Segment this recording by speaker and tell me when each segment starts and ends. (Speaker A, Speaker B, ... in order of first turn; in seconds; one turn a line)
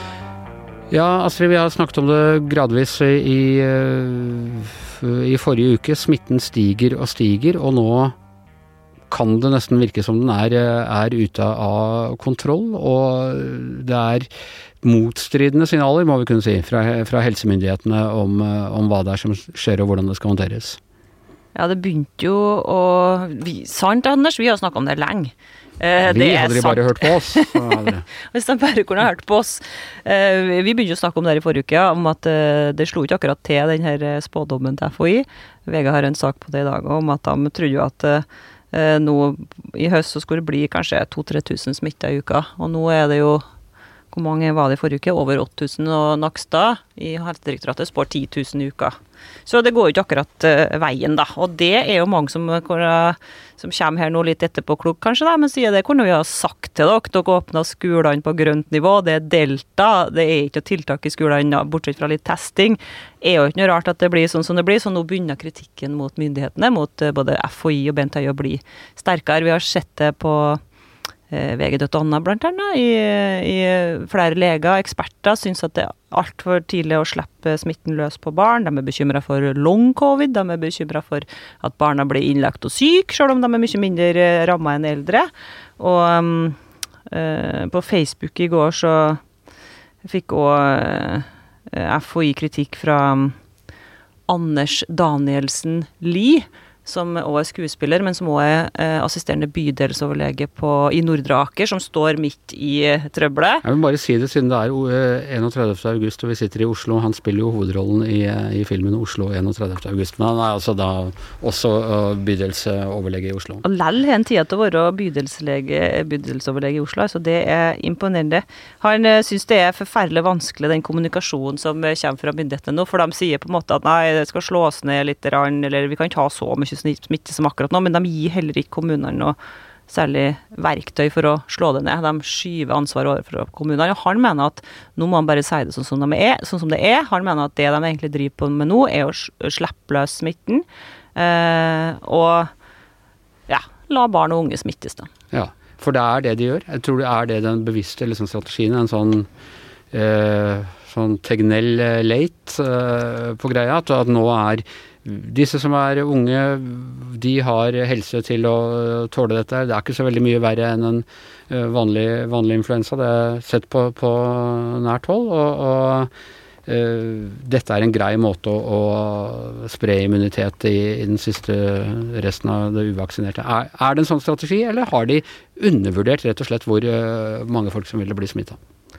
Speaker A: 0.9-8.2
Speaker A: 9.1-14.3
Speaker A: 14.8-20.8
Speaker B: 21.6-43.4
Speaker A: 26.1-28.1
Speaker B: 44.1-70.6
Speaker B: 71.3-86.6
Speaker B: 87.1-89.2
Speaker B: 90.0-93.4
Speaker B: 94.3-103.6
Speaker A: 103.6-113.6
Speaker B: 113.6-129.4
Speaker B: 129.9-142.5
Speaker B: 143.5-145.1
Speaker A: 145.3-149.3
Speaker A: 149.9-166.1
Speaker A: 166.7-178.6